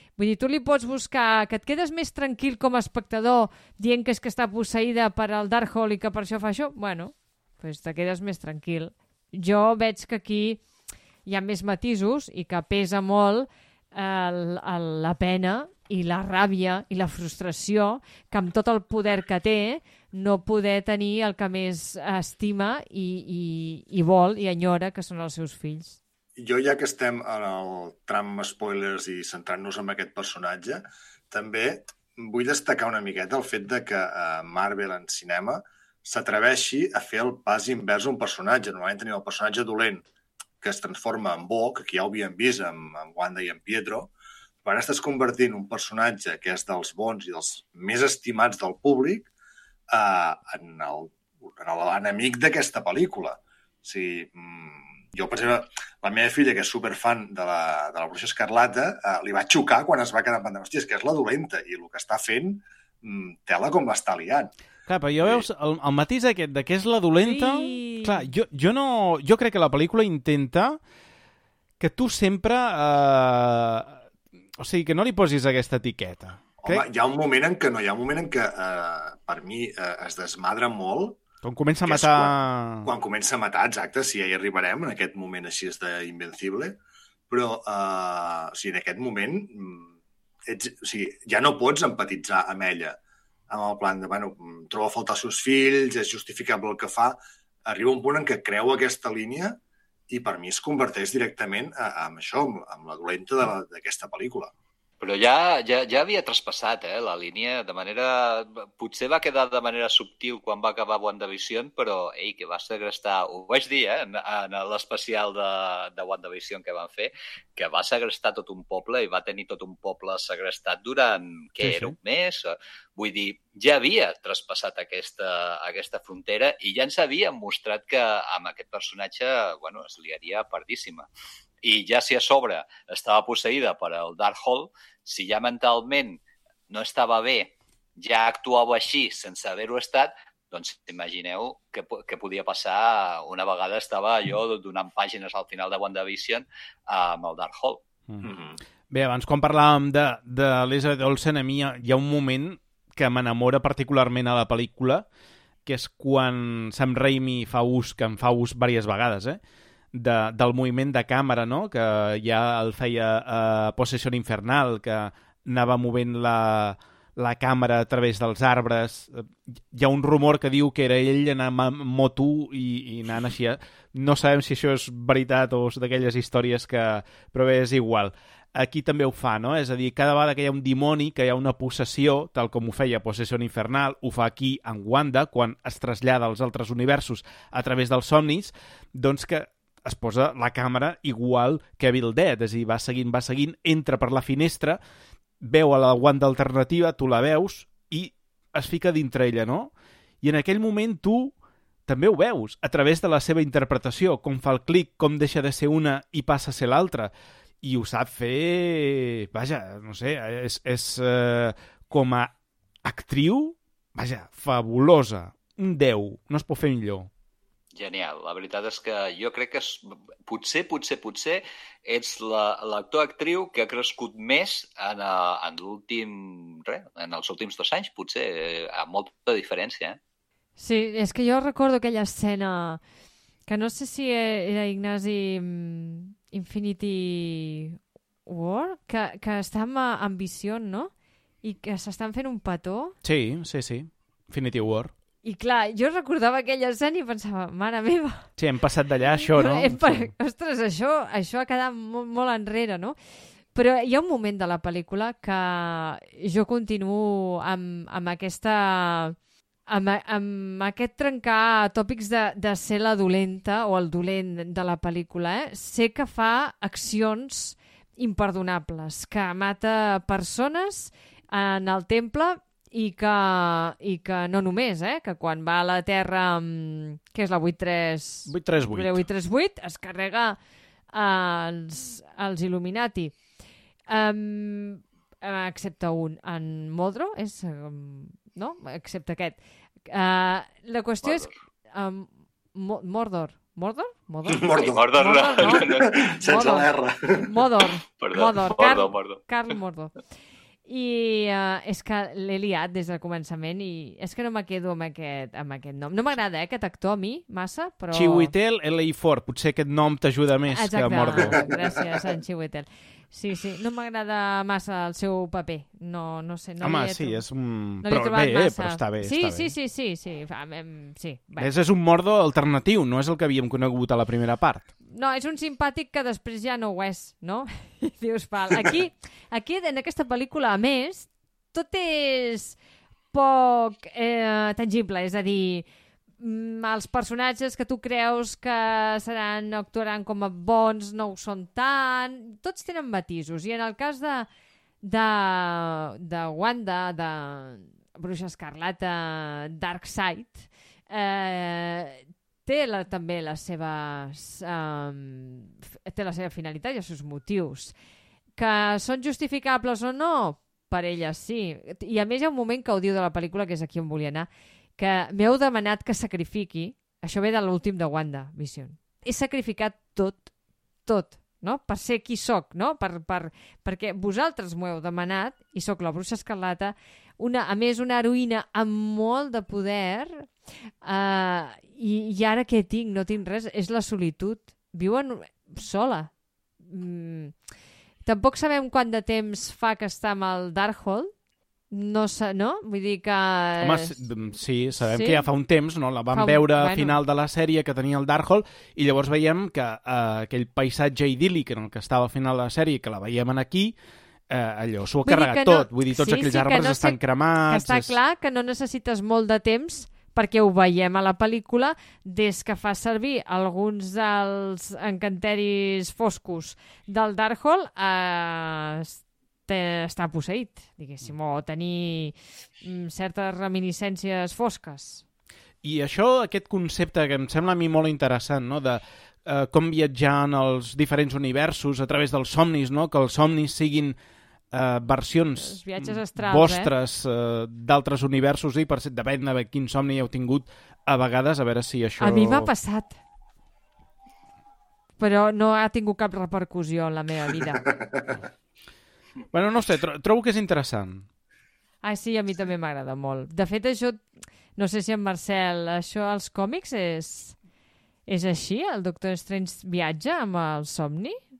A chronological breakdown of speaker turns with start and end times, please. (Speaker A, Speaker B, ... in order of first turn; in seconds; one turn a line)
Speaker A: 0.2-10.6
Speaker A: 11.2-26.0
Speaker B: 26.4-40.0
Speaker B: 40.6-44.1
Speaker B: 44.6-49.3
Speaker B: 49.9-64.5
Speaker C: 64.9-70.8
Speaker A: 67.2-68.3
Speaker C: 71.8-74.0
Speaker C: 74.6-76.8
Speaker B: 76.6-81.2
Speaker C: 81.4-82.9
Speaker B: 81.8-82.3
Speaker B: 82.8-86.8
Speaker B: 87.3-89.9
Speaker B: 90.5-93.0
Speaker B: 93.5-99.6
Speaker B: 100.1-104.5
Speaker D: 105.0-131.1
Speaker C: 121.6-121.9
Speaker D: 131.6-147.8
Speaker B: 148.2-148.6
Speaker C: 148.9-155.0
Speaker C: 155.7-159.4
Speaker C: 159.9-194.8
Speaker C: 195.4-201.3
Speaker C: 201.9-212.3
Speaker C: 212.8-217.1
Speaker D: 217.7-230.0
Speaker A: 230.6-232.8
Speaker A: 233.5-240.9
Speaker A: 241.4-242.9
Speaker C: 243.0-244.9
Speaker A: 245.2-248.3
Speaker C: 248.4-250.1
Speaker A: 249.1-252.9
Speaker A: 253.5-259.1
Speaker A: 259.7-280.4
Speaker C: 278.3-279.0
Speaker A: 280.9-283.1
Speaker A: 283.9-299.9
Speaker D: 291.0-291.3
Speaker B: 294.3-297.3
Speaker D: 294.5-296.0
Speaker D: 298.0-299.2
Speaker A: 300.6-308.3
Speaker C: 307.9-311.4
Speaker A: 310.5-317.2
Speaker B: 311.2-311.6
Speaker C: 316.6-319.5
Speaker A: 317.8-321.5
Speaker C: 321.4-324.7
Speaker A: 324.9-332.6
Speaker A: 333.1-335.6
Speaker A: 336.2-344.3
Speaker A: 344.8-357.7
Speaker A: 358.4-370.3
Speaker A: 370.9-380.3
Speaker A: 380.8-386.1
Speaker A: 386.6-387.3
Speaker A: 388.0-391.1
Speaker A: 391.7-393.9
Speaker C: 393.6-403.7
Speaker A: 394.9-395.2
Speaker A: 396.1-397.0
Speaker C: 404.3-407.9
Speaker A: 405.0-425.0
Speaker C: 425.6-433.9
Speaker C: 434.5-442.5
Speaker A: 435.4-436.7
Speaker A: 442.0-443.0
Speaker A: 445.0-447.6
Speaker B: 447.6-448.2
Speaker C: 449.3-451.0
Speaker A: 451.8-454.0
Speaker A: 454.6-457.4
Speaker A: 458.1-461.2